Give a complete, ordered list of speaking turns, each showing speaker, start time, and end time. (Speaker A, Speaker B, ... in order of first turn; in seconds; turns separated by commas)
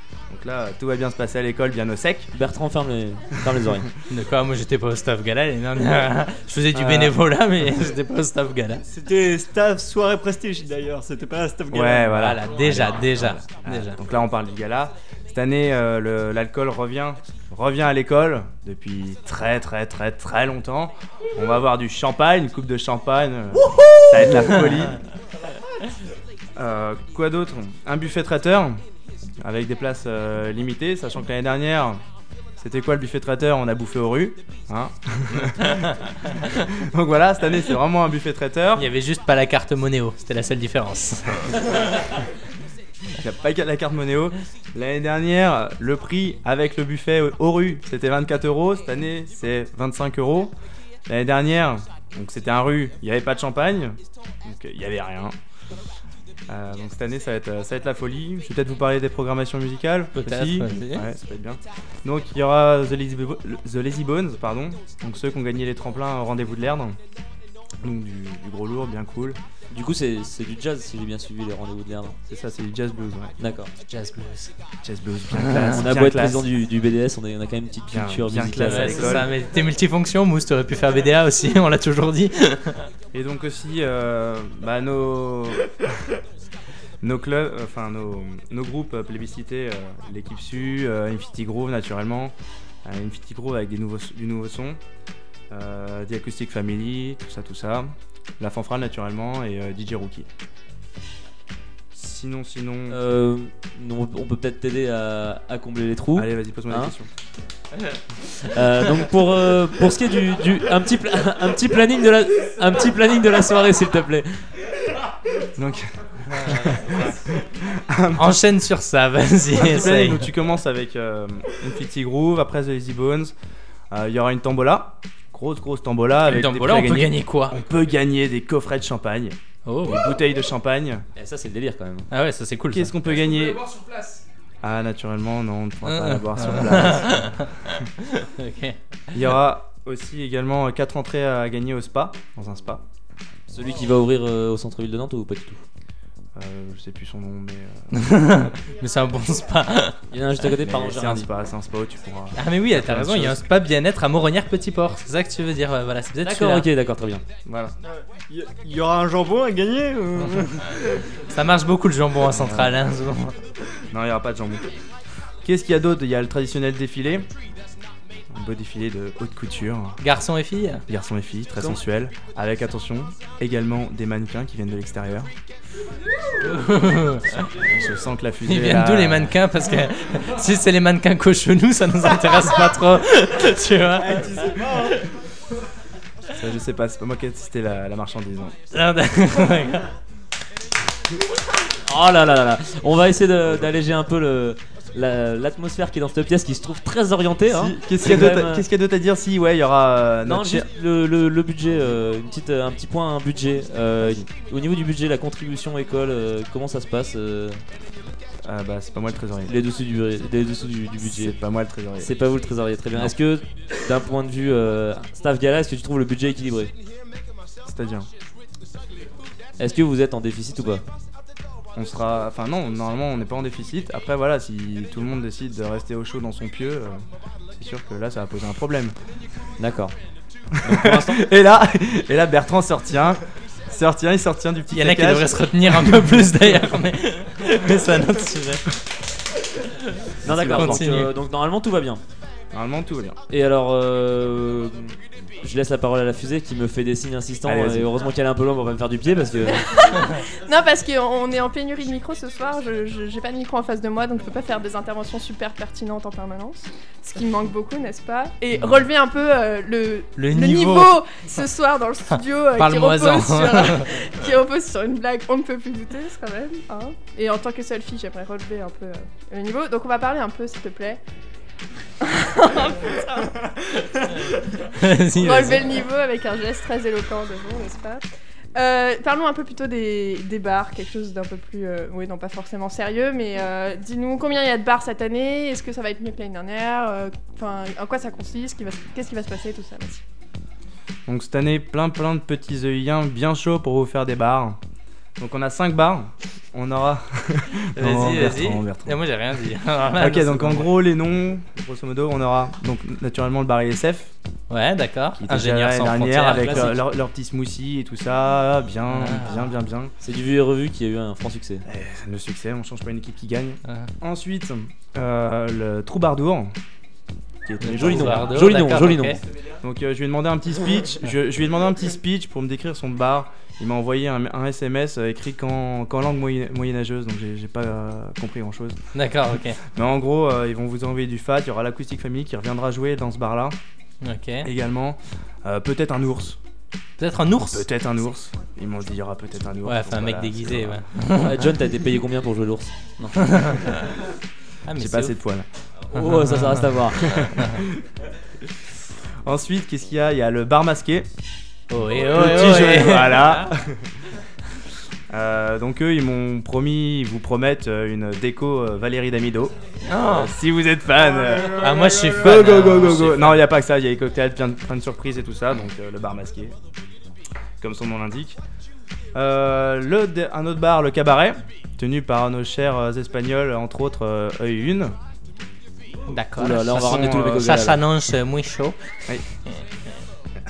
Speaker A: 0.3-2.3, Speaker B: 2.3-3.9, Speaker C: 4.1-8.8, Speaker A: 6.7-7.2, Speaker D: 8.8-12.3, Speaker A: 11.7-25.0, Speaker C: 12.2-14.0, Speaker A: 26.6-28.8, Speaker A: 29.4-32.0, Speaker A: 32.6-38.9, Speaker C: 38.8-41.5, Speaker A: 43.2-50.5, Speaker A: 51.1-55.4, Speaker A: 56.5-67.0, Speaker B: 60.2-60.9, Speaker C: 60.2-61.1, Speaker A: 67.8-69.4, Speaker B: 69.7-72.2, Speaker A: 72.3-73.3, Speaker B: 73.4-73.7, Speaker C: 73.8-74.5, Speaker A: 74.8-76.5, Speaker C: 75.5-75.8, Speaker B: 75.7-79.2, Speaker A: 77.9-79.3, Speaker C: 78.7-82.8, Speaker A: 83.1-85.7, Speaker A: 87.0-94.8, Speaker A: 95.5-100.3, Speaker A: 101.9-103.0, Speaker B: 102.9-106.9, Speaker A: 106.2-107.1, Speaker B: 108.4-114.3, Speaker A: 115.6-118.4, Speaker C: 116.3-117.0, Speaker C: 118.2-120.2, Speaker A: 119.6-123.3, Speaker A: 123.9-131.0, Speaker C: 126.2-127.6, Speaker C: 129.7-130.1, Speaker B: 131.2-132.1, Speaker C: 132.1-132.9, Speaker A: 132.7-133.8, Speaker A: 134.6-137.3, Speaker C: 135.8-139.2, Speaker A: 139.1-142.8, Speaker B: 143.5-145.6, Speaker A: 146.3-147.9, Speaker C: 147.9-150.0, Speaker B: 150.1-151.3, Speaker A: 150.6-153.4, Speaker C: 152.4-156.7, Speaker B: 156.2-157.2, Speaker A: 157.5-157.7, Speaker D: 157.8-160.7, Speaker C: 161.3-163.4, Speaker A: 162.3-162.7, Speaker A: 163.9-164.7, Speaker A: 165.4-167.3, Speaker A: 168.3-170.0, Speaker C: 170.0-170.8, Speaker A: 170.9-175.3, Speaker C: 176.3-177.5, Speaker A: 177.5-179.4, Speaker C: 178.4-184.6, Speaker D: 184.0-185.0, Speaker A: 186.3-188.6, Speaker C: 188.7-189.9, Speaker B: 191.9-198.7, Speaker A: 193.4-193.7, Speaker A: 197.5-200.7, Speaker B: 200.3-207.6, Speaker A: 204.0-204.3, Speaker A: 208.4-209.5, Speaker B: 209.5-211.4, Speaker A: 211.0-212.1, Speaker B: 212.0-216.7, Speaker A: 217.7-218.1, Speaker B: 219.6-220.8, Speaker A: 221.8-227.0, Speaker A: 227.5-228.9, Speaker B: 229.6-229.9, Speaker B: 230.6-231.2, Speaker A: 230.7-236.3, Speaker C: 234.7-238.6, Speaker B: 240.2-242.0, Speaker A: 240.3-241.0, Speaker C: 240.4-241.1, Speaker A: 242.5-243.2, Speaker B: 243.3-249.7, Speaker A: 247.4-247.9, Speaker E: 249.5-271.0, Speaker C: 260.2-261.3, Speaker C: 262.1-263.9, Speaker E: 272.0-273.4, Speaker C: 274.7-275.8, Speaker E: 275.1-290.0, Speaker A: 291.1-294.6, Speaker A: 295.2-299.0, Speaker C: 297.8-300.7, Speaker A: 299.9-304.1, Speaker C: 304.5-306.8, Speaker A: 305.2-309.9, Speaker B: 306.2-306.8, Speaker C: 308.9-309.4, Speaker B: 310.0-311.6, Speaker A: 311.6-316.6, Speaker A: 317.4-318.3, Speaker C: 317.6-319.2, Speaker B: 317.7-319.2, Speaker A: 319.6-328.8, Speaker C: 328.9-329.6, Speaker A: 329.7-333.6, Speaker C: 334.0-334.5, Speaker A: 334.4-336.4, Speaker C: 337.0-337.7, Speaker A: 337.4-340.8, Speaker C: 339.6-341.5, Speaker B: 341.2-342.8, Speaker C: 343.0-343.9, Speaker C: 344.7-345.1, Speaker A: 344.8-345.5, Speaker B: 345.9-347.3, Speaker C: 345.9-346.7, Speaker A: 347.0-347.8, Speaker C: 347.4-347.6, Speaker A: 349.2-351.1, Speaker C: 351.7-353.5, Speaker A: 351.9-353.8, Speaker A: 355.1-366.6, Speaker C: 359.8-360.3, Speaker C: 361.5-363.4, Speaker A: 367.6-368.4, Speaker A: 369.1-374.9, Speaker C: 376.1-378.8, Speaker B: 376.4-377.8, Speaker A: 376.6-377.5